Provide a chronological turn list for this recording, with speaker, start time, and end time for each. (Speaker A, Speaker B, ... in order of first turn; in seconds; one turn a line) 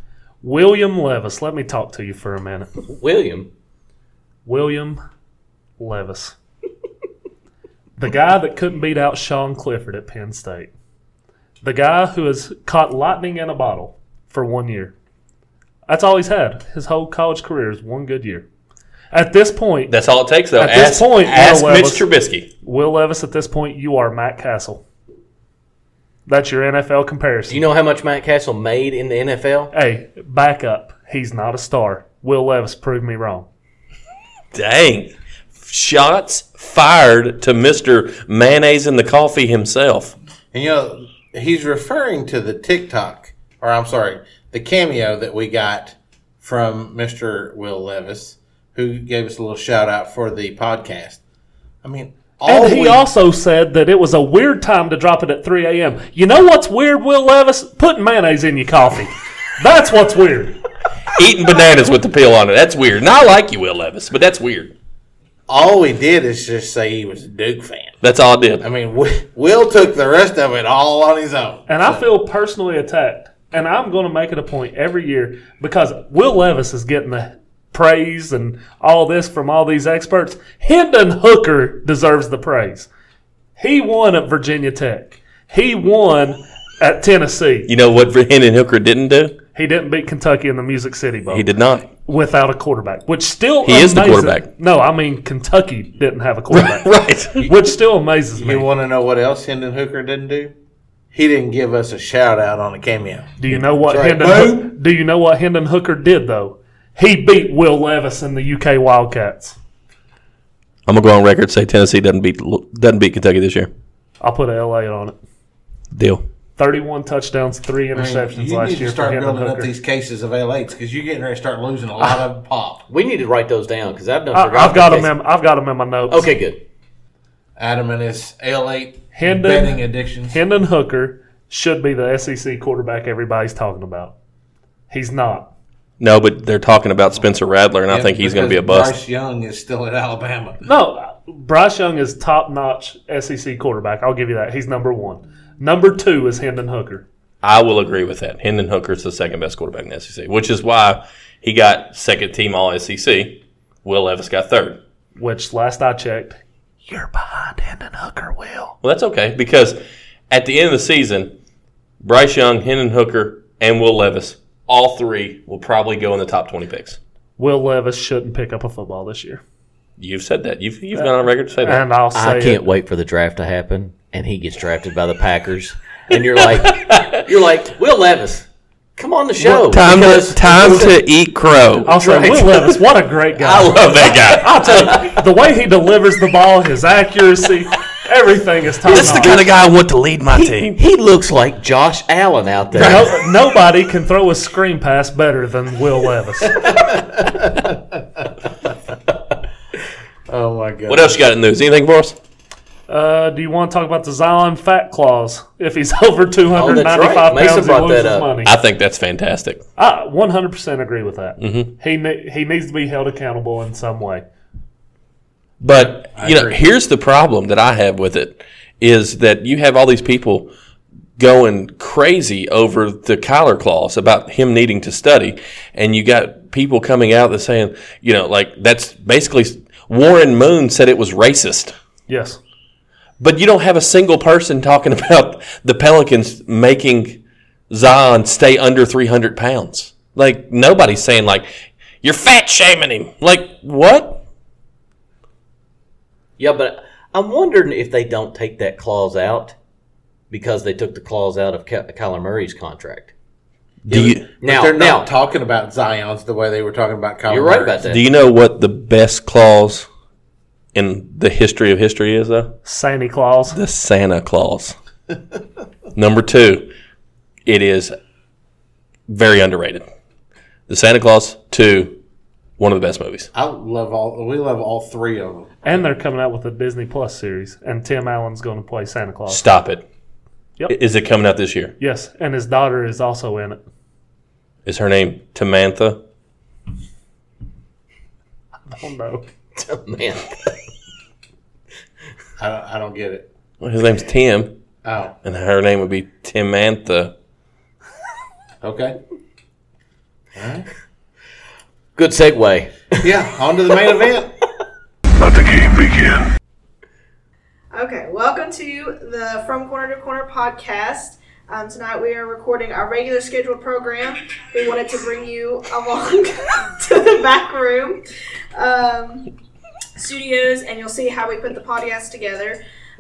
Speaker A: 0.4-2.7
Speaker B: 2.9-3.5
Speaker A: 4.4-5.0
Speaker A: 5.8-6.4
Speaker A: 8.0-10.7
Speaker A: 11.6-14.9
Speaker A: 15.9-18.4
Speaker A: 19.1-19.9
Speaker C: 19.9-22.5
Speaker A: 20.6-22.1
Speaker A: 22.6-24.8
Speaker A: 26.3-27.6
Speaker B: 27.5-29.7
Speaker A: 29.7-33.5
Speaker C: 34.5-40.1
Speaker D: 40.5-51.2
Speaker D: 51.8-53.1
Speaker A: 52.4-60.6
Speaker C: 61.1-64.7
Speaker D: 65.5-67.9
Speaker C: 68.0-68.6
Speaker D: 68.6-72.0
Speaker A: 71.7-82.9
Speaker A: 83.6-87.7
Speaker C: 87.7-89.3
Speaker A: 89.5-91.5
Speaker C: 91.3-91.9
Speaker A: 92.1-98.7
Speaker C: 93.6-94.5
Speaker C: 96.5-97.5
Speaker D: 98.4-100.5
Speaker D: 101.1-104.7
Speaker A: 103.4-109.6
Speaker C: 110.9-113.7
Speaker A: 114.2-115.1
Speaker C: 115.9-116.2
Speaker A: 116.6-119.7
Speaker D: 117.9-122.8
Speaker B: 122.9-125.1
Speaker A: 124.3-126.3
Speaker B: 126.1-126.6
Speaker D: 127.6-130.4
Speaker A: 129.1-134.1
Speaker A: 134.9-135.5
Speaker C: 136.0-139.0
Speaker D: 137.9-140.6
Speaker A: 140.6-147.1
Speaker C: 147.4-154.8
Speaker A: 155.2-158.8
Speaker C: 158.8-159.8
Speaker C: 160.3-161.3
Speaker C: 162.0-167.0
Speaker A: 167.4-169.4
Speaker C: 170.0-171.8
Speaker A: 170.9-172.6
Speaker B: 172.1-178.4
Speaker C: 176.4-177.2
Speaker B: 179.0-180.9
Speaker C: 179.4-182.8
Speaker A: 181.9-189.4
Speaker B: 182.0-182.4
Speaker C: 183.3-185.2
Speaker C: 188.9-190.8
Speaker B: 188.9-189.3
Speaker B: 190.3-193.1
Speaker A: 192.8-196.7
Speaker C: 192.8-193.0
Speaker D: 196.6-198.3
Speaker D: 200.3-201.2
Speaker C: 200.9-202.2
Speaker A: 202.9-208.6
Speaker B: 206.5-208.3
Speaker C: 208.4-209.6
Speaker A: 209.8-214.2
Speaker C: 211.4-211.7
Speaker C: 215.6-220.5
Speaker D: 215.7-216.6
Speaker C: 221.2-231.7
Speaker A: 232.1-232.4
Speaker C: 233.2-241.5
Speaker C: 242.0-244.2
Speaker B: 246.4-249.6
Speaker B: 250.3-253.1
Speaker C: 253.9-254.3
Speaker D: 253.9-257.8
Speaker B: 254.4-255.1
Speaker B: 257.3-258.0
Speaker C: 257.9-259.9
Speaker C: 260.8-262.6
Speaker A: 262.6-263.6
Speaker C: 263.5-264.8
Speaker C: 265.9-266.7
Speaker C: 267.4-267.9
Speaker C: 269.1-269.8
Speaker C: 270.7-271.9
Speaker C: 272.6-273.3
Speaker D: 273.3-275.8
Speaker A: 275.6-279.4
Speaker C: 279.3-279.8
Speaker C: 280.7-281.8
Speaker A: 281.8-283.6
Speaker C: 284.6-286.0
Speaker A: 288.7-289.3
Speaker B: 289.6-290.6
Speaker D: 292.4-293.3
Speaker C: 293.6-294.5
Speaker D: 294.8-295.1
Speaker C: 295.2-297.1
Speaker D: 298.6-299.0
Speaker D: 300.4-300.7
Speaker B: 301.9-303.1
Speaker D: 303.0-304.3
Speaker C: 305.2-306.1
Speaker E: 307.7-318.0
Speaker E: 318.6-319.3
Speaker E: 319.9-322.6